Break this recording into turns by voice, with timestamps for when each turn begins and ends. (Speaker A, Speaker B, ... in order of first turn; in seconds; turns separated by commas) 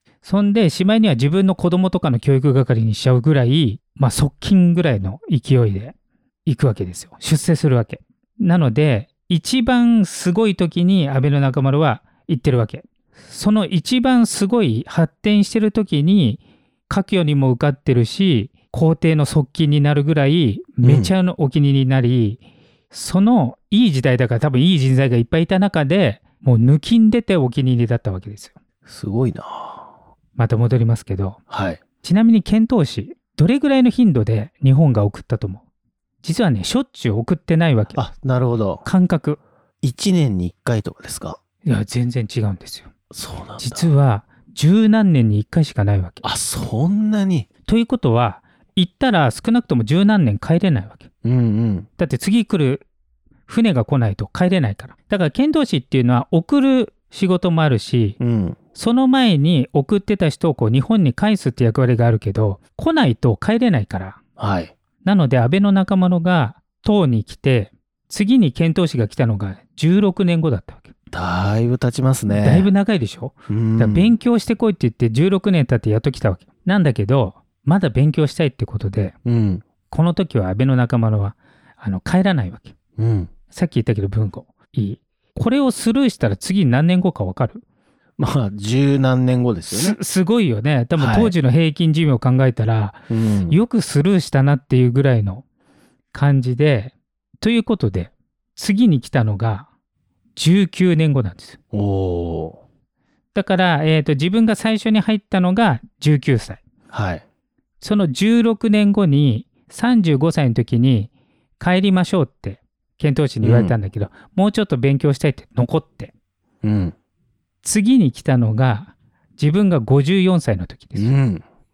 Speaker A: 0.2-5.9, Speaker A: 6.5-22.4, Speaker B: 20.8-21.1, Speaker A: 22.9-28.5, Speaker B: 28.9-29.9, Speaker A: 30.4-31.4, Speaker B: 31.5-31.8, Speaker A: 32.0-35.6, Speaker A: 36.2-38.0, Speaker B: 37.9-38.8, Speaker A: 38.8-39.4, Speaker B: 39.8-41.4, Speaker A: 41.6-42.9, Speaker B: 43.1-43.9, Speaker A: 43.6-46.2, Speaker B: 46.2-47.5, Speaker A: 47.6-51.1, Speaker B: 51.2-51.9, Speaker A: 52.0-52.8, Speaker A: 53.5-58.2, Speaker B: 58.2-58.6, Speaker A: 58.7-64.2, Speaker B: 64.4-64.7, Speaker A: 65.0-70.9, Speaker B: 71.1-72.7, Speaker A: 72.3-79.1, Speaker B: 73.5-74.1, Speaker B: 79.2-79.6, Speaker A: 79.9-82.7, Speaker B: 83.0-83.3, Speaker A: 83.5-87.6, Speaker B: 88.2-90.0, Speaker A: 89.7-95.4, Speaker B: 91.0-91.3, Speaker B: 93.1-93.6, Speaker A: 96.1-99.7, Speaker A: 100.3-101.6, Speaker B: 101.7-102.6, Speaker A: 103.3-106.6, Speaker B: 106.9-107.2, Speaker A: 107.8-116.1, Speaker B: 113.4-113.7, Speaker B: 116.6-116.9, Speaker A: 117.6-121.1, Speaker B: 121.0-121.4